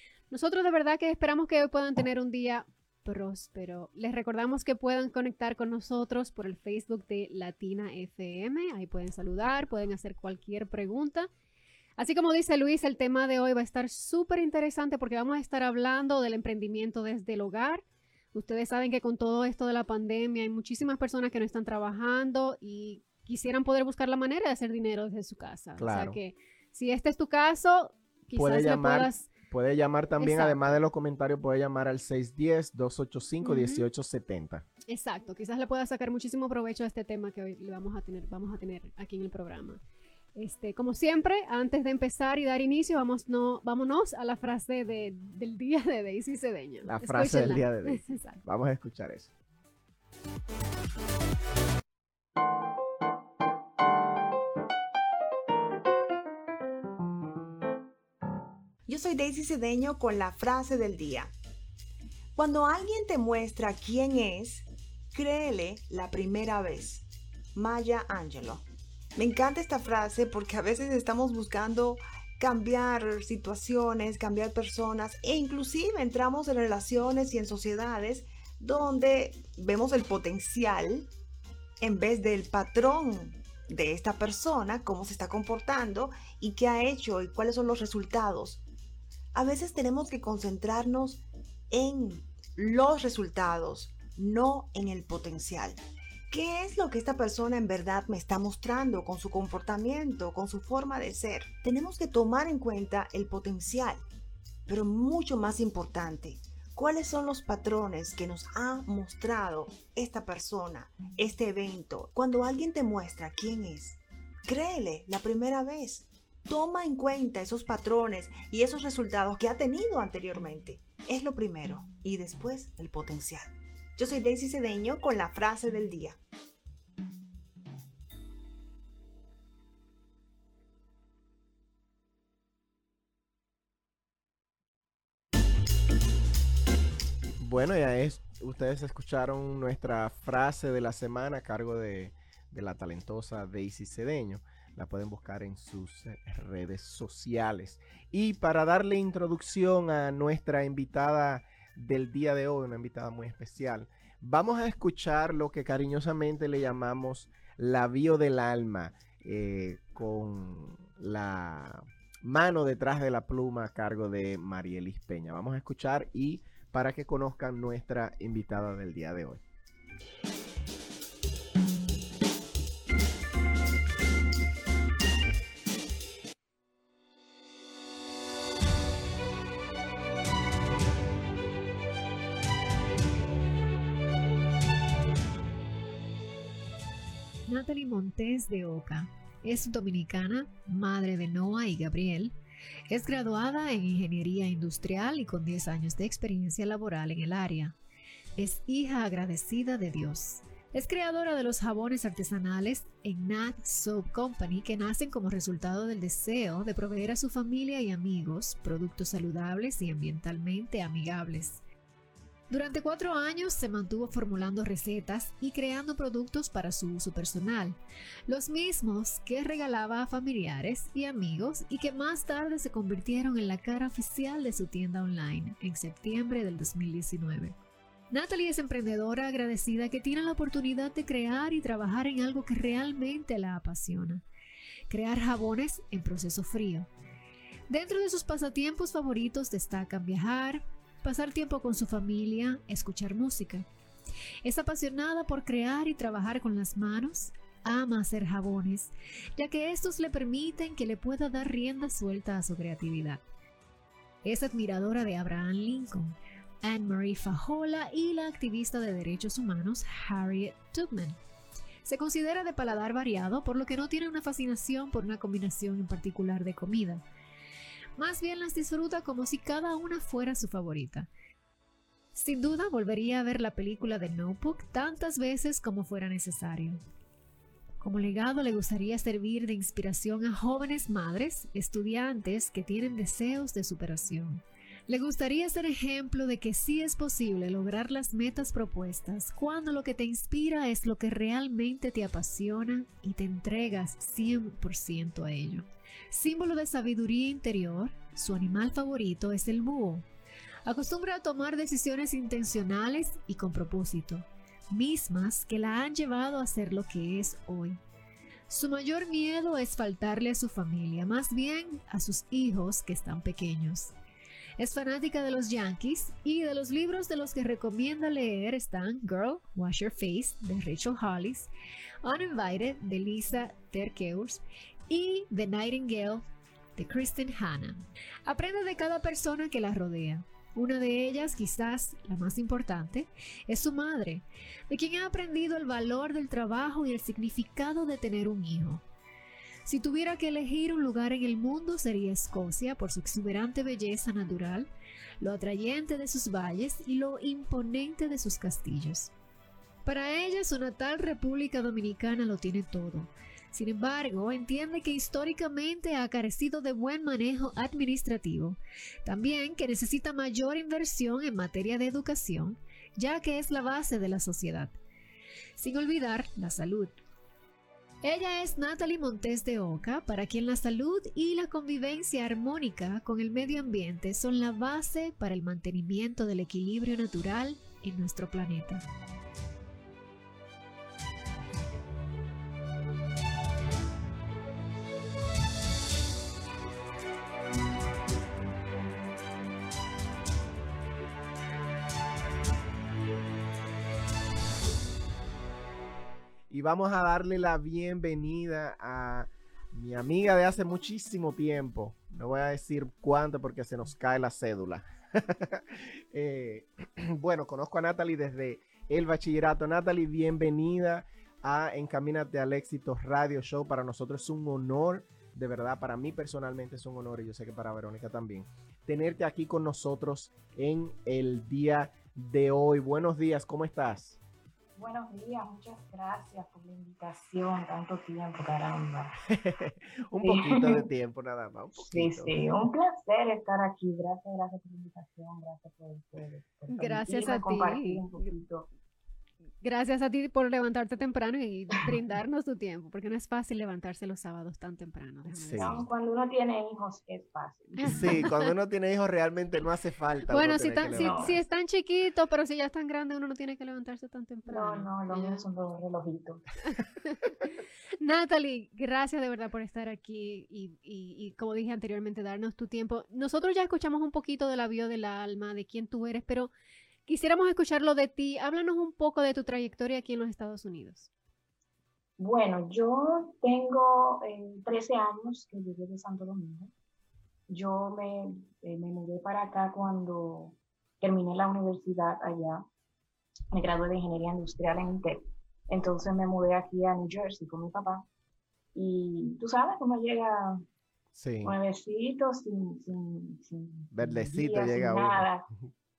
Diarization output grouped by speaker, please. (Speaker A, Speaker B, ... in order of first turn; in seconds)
Speaker A: 0.3-11.3, 12.0-29.3, 30.2-30.8, 33.4-33.8, 34.9-39.8, 40.4-48.4, 436.7-438.3, 439.6-445.9, 447.8-448.3, 450.3-455.4, 457.0-466.5, 467.1-471.1
Speaker B: 25.8-26.2, 28.3-34.6, 46.8-49.3, 137.4-169.4, 396.5-424.2, 429.3-432.3, 445.3-445.8, 447.8-451.4, 491.1-491.6, 493.9-495.7
Speaker C: 58.9-61.3, 62.3-68.6, 69.2-81.1, 81.8-88.6, 89.3-95.8, 96.3-104.0, 104.7-126.2
Speaker D: 187.5-192.3, 192.9-197.8, 198.4-211.6, 212.5-227.6, 228.1-234.2, 234.9-236.9, 237.7-243.7, 244.4-253.2, 254.2-261.2, 261.8-267.0, 267.9-271.1, 272.1-276.8, 277.8-300.1, 300.6-307.8, 308.5-313.9, 314.6-321.5, 322.0-326.2, 326.8-338.8, 339.6-344.7, 345.2-349.1, 349.8-364.8, 365.6-367.0, 368.0-378.8
Speaker E: 424.8-429.1, 430.2-430.8, 431.8-438.7, 445.5-448.2, 450.9-451.4, 454.5-456.4, 472.2-476.7, 477.5-482.6, 483.5-488.0, 488.7-490.6, 491.4-495.5